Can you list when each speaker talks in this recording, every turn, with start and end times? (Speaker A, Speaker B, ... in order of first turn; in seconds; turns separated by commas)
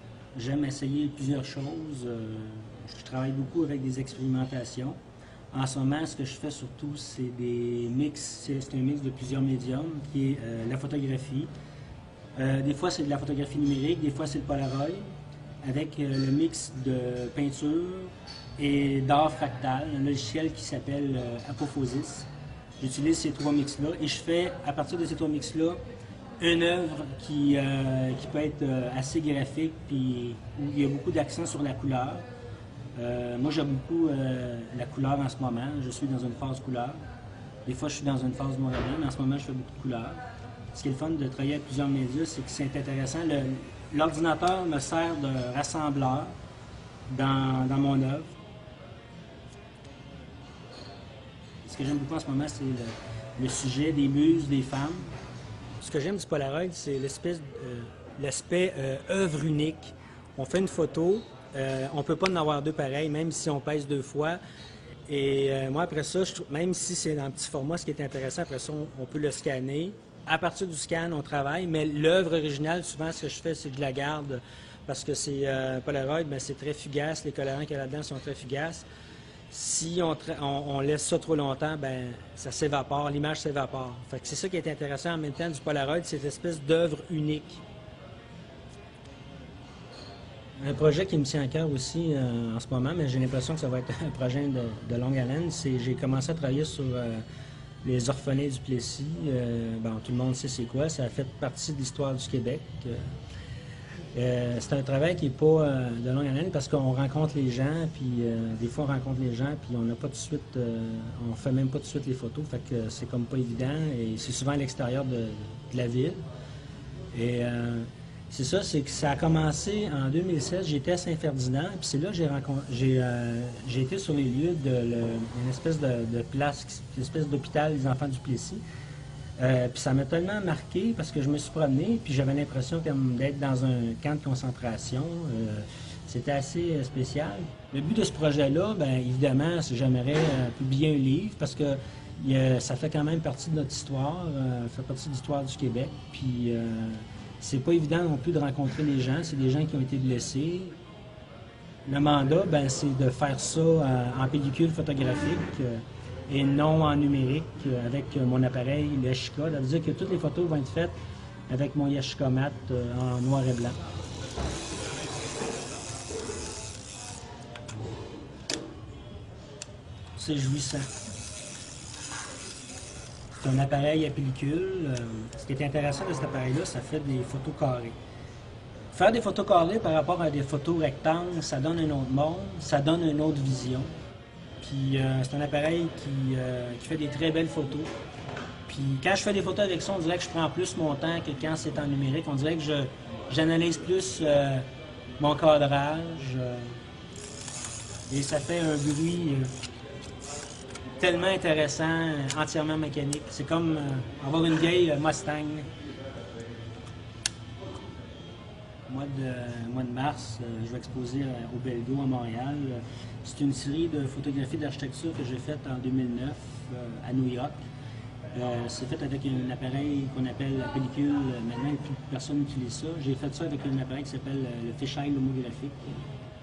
Speaker A: 0.3-5.0, Speaker A: 5.5-11.5, Speaker A: 12.3-15.1, Speaker A: 15.6-25.8, Speaker A: 26.4-32.2, Speaker A: 32.9-37.0, Speaker A: 37.6-40.2, Speaker A: 40.7-46.4, Speaker A: 47.1-48.3, Speaker A: 51.6-55.2, Speaker A: 55.8-64.4, Speaker A: 65.1-78.9, Speaker A: 79.5-87.6, Speaker A: 90.6-97.2, Speaker A: 97.8-103.0, Speaker A: 104.1-116.2, Speaker A: 117.1-128.6, Speaker A: 129.4-150.8, Speaker A: 151.8-161.0, Speaker A: 161.5-163.8, Speaker A: 170.2-170.9, Speaker A: 173.4-178.0, Speaker A: 178.9-183.9, Speaker A: 184.6-187.9, Speaker A: 188.7-194.7, Speaker A: 195.2-196.8, Speaker A: 198.1-199.5, Speaker A: 201.0-205.7, Speaker A: 208.8-217.6, Speaker A: 218.3-226.1